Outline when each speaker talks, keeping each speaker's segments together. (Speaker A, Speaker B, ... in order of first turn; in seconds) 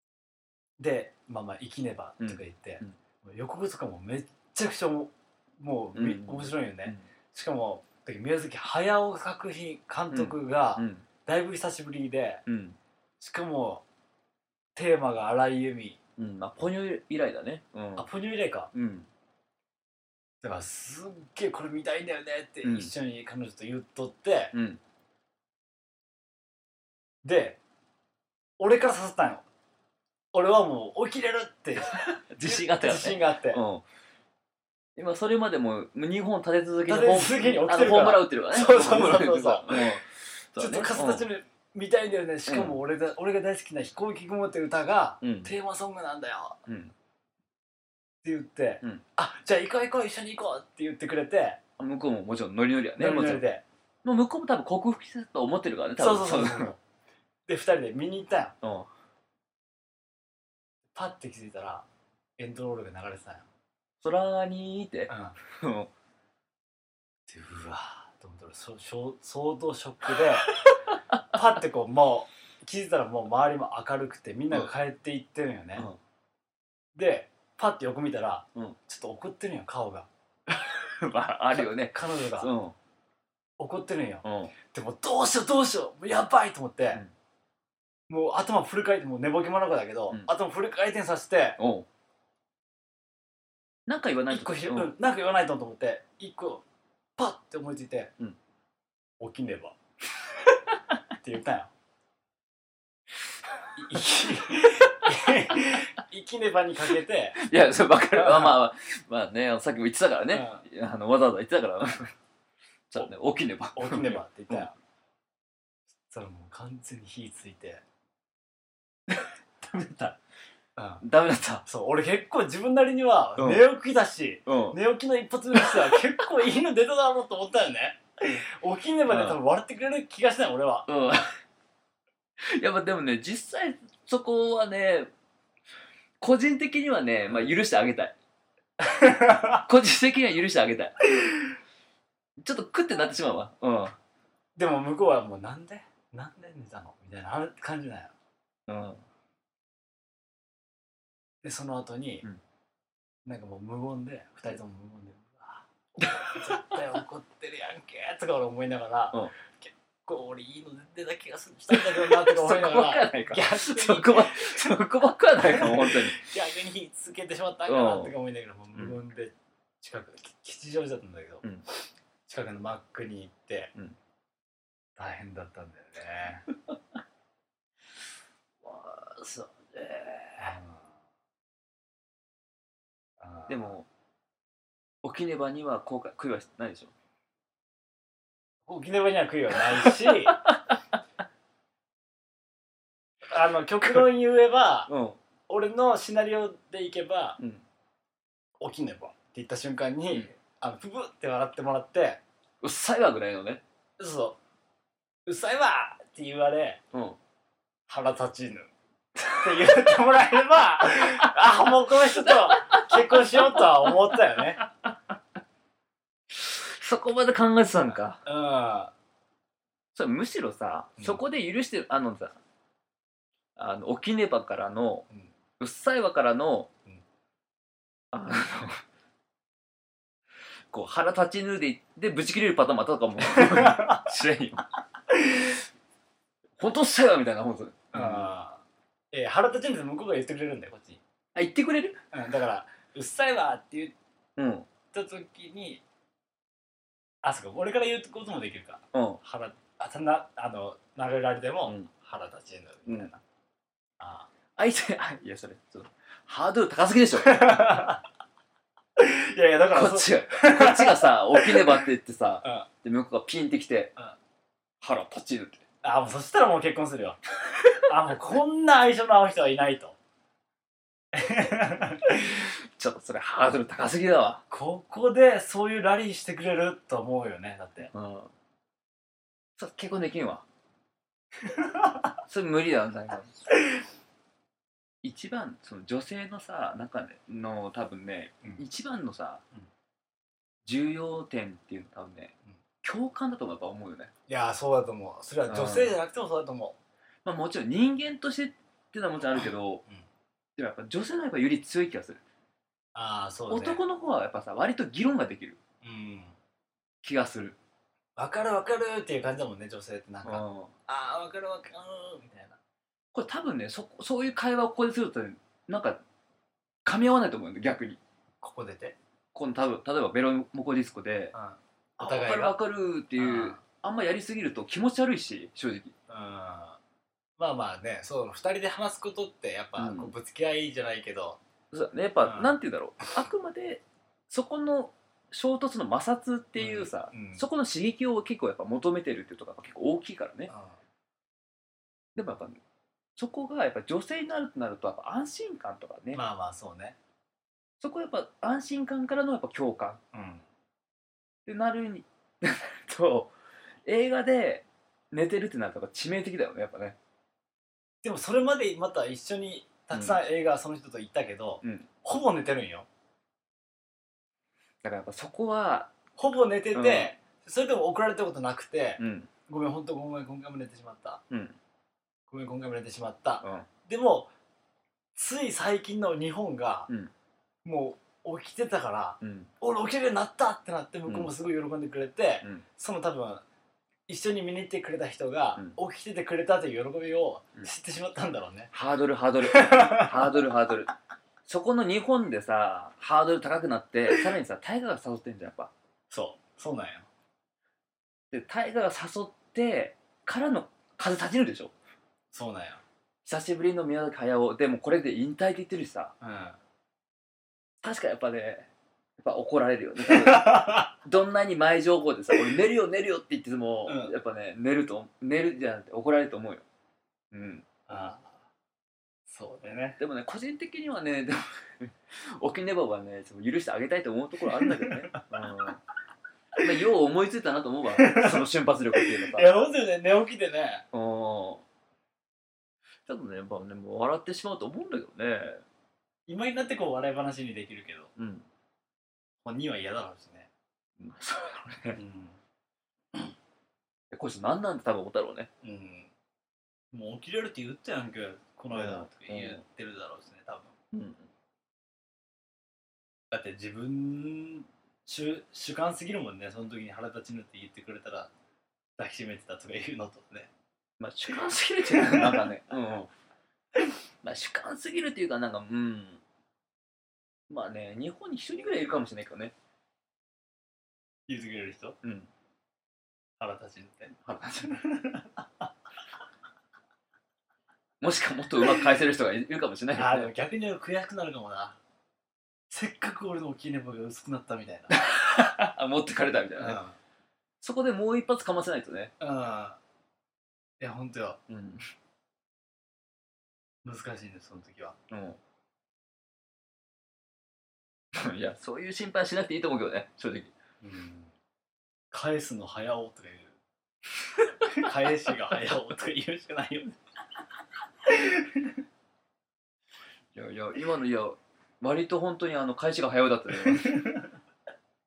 Speaker A: 0.8-12.4, 13.2-13.8, 14.8-16.0, 18.0-18.7, 20.4-24.5, 27.2-27.6, 28.6-29.4, 30.3-33.6, 36.9-39.9, 40.6-46.6, 48.2-51.6, 53.0-53.6, 56.0-56.8, 57.5-58.5, 61.0-61.9, 62.4-63.5, 65.1-65.4, 67.3-70.5, 71.3-75.9, 77.0-80.1, 81.5-82.5, 83.6-87.0, 88.1-91.6, 94.3-96.6, 97.2-98.1, 99.2-99.8, 101.2-101.7, 103.8-107.4, 108.1-108.6, 110.3-110.6, 113.8-114.7, 116.1-117.8, 120.8-121.0, 121.7-130.9, 138.8-139.6, 144.6-148.1, 151.4-152.2, 153.2-164.8, 165.4-171.4, 172.3-173.7, 175.0-176.4, 180.4-180.8, 183.2-183.7, 188.7-190.4, 193.3-194.9, 195.5-197.4, 198.6-202.2, 204.0-204.4, 205.3-206.8, 207.9-208.7, 209.4-214.6, 218.2-218.9, 233.2-234.1, 235.1-235.5, 237.9-241.0, 242.1-243.9, 244.9-245.8, 247.2-253.2, 254.0-254.3, 257.2-258.0, 259.0-261.9, 265.8-267.2, 267.8-270.0, 271.1-272.4, 274.5-277.9, 281.5-281.9, 294.3-296.8, 299.4-300.0, 302.9-303.8, 305.8-306.4, 308.2-312.6, 318.4-319.0, 321.3-322.6, 323.2-323.6, 326.1-326.8, 327.4-331.4, 332.2-332.6, 336.6-337.4, 340.5-340.8, 346.1-347.0, 350.1-350.4, 358.0-362.9, 366.2-371.2, 372.3-374.3, 375.1-376.9, 377.6-383.4, 384.1-388.7, 389.5-390.3, 396.1-397.1, 402.3-402.8, 406.2-406.6, 410.0-410.9, 413.9-414.1, 417.9-418.4, 419.3-420.0, 424.5-425.2, 427.9-430.9, 436.3-438.1, 439.4-440.5, 441.9-442.4, 445.6-446.1, 446.9-450.7, 453.3-458.3, 459.0-460.5, 461.9-462.5, 471.3-472.0, 473.4-474.1, 474.7-475.7, 479.9-481.8, 482.7-484.9, 486.6-487.0, 489.2-489.8, 490.8-491.4, 493.8-495.0, 500.8-501.3, 502.1-503.6, 504.7-507.0, 508.0-508.8, 513.6-514.3
Speaker B: 2.2-3.0, 6.0-7.1, 10.1-11.1, 12.5-12.8, 16.2-18.1, 18.7-19.1, 22.6-22.9, 24.5-24.8, 32.0-33.8, 35.0-41.3, 42.5-42.8, 45.2-45.5, 46.7-46.9, 51.8-53.5, 54.0-56.7, 58.6-58.9, 64.0-65.9, 70.6-71.2, 80.5-82.8, 84.2-84.5, 91.6-91.9, 93.9-94.9, 104.9-105.6, 107.4-112.1, 112.9-114.7, 119.1-120.2, 121.0-121.7, 123.4-123.7, 124.5-124.8, 129.1-129.4, 130.9-131.4, 132.4-135.1, 136.2-138.2, 139.4-141.0, 142.4-144.0, 148.7-149.0, 156.0-156.5, 161.7-166.3, 167.7-168.2, 178.6-180.6, 183.5-183.9, 185.0-186.9, 190.1-190.8, 194.9-195.2, 197.4-197.6, 202.6-203.6, 206.9-207.2, 209.2-209.9, 211.0-211.4, 212.2-214.0, 214.6-215.1, 216.3-218.2, 219.9-222.4, 223.6-225.1, 225.6-226.7, 228.1-228.8, 230.7-234.7, 236.6-238.3, 241.3-242.0, 244.4-244.7, 248.9-249.2, 254.6-257.5, 259.7-263.9, 264.8-265.6, 272.8-274.4, 277.9-278.3, 279.6-280.5, 282.2-283.4, 285.0-289.4, 290.6-294.1, 295.5-296.0, 297.2-299.8, 300.6-302.2, 303.5-305.6, 307.0-307.6, 310.2-310.7, 313.1-316.0, 316.9-318.0, 319.3-321.4, 322.0-325.9, 329.8-330.1, 331.7-340.5, 342.2-342.6, 343.2-346.2, 347.8-350.0, 351.5-353.3, 353.9-357.0, 359.9-360.2, 361.6-361.9, 364.8-365.9, 366.7-367.1, 369.0-369.3, 371.3-371.6, 373.4-373.7, 379.2-379.5, 381.1-381.3, 388.7-390.9, 391.4-395.7, 398.3-401.7, 403.2-406.1, 407.8-416.6, 417.3-417.7, 420.0-425.8, 426.6-429.6, 430.9-431.6, 433.1-435.6, 438.2-438.5, 441.0-442.0, 444.1-445.5, 448.7-449.6, 450.9-451.3, 461.0-463.1, 464.2-466.2, 467.5-469.5, 472.0-472.3, 474.2-474.8, 478.0-480.3, 484.9-486.8, 487.6-489.1, 491.5-491.8, 495.1-495.4, 498.1-500.5, 510.4-514.0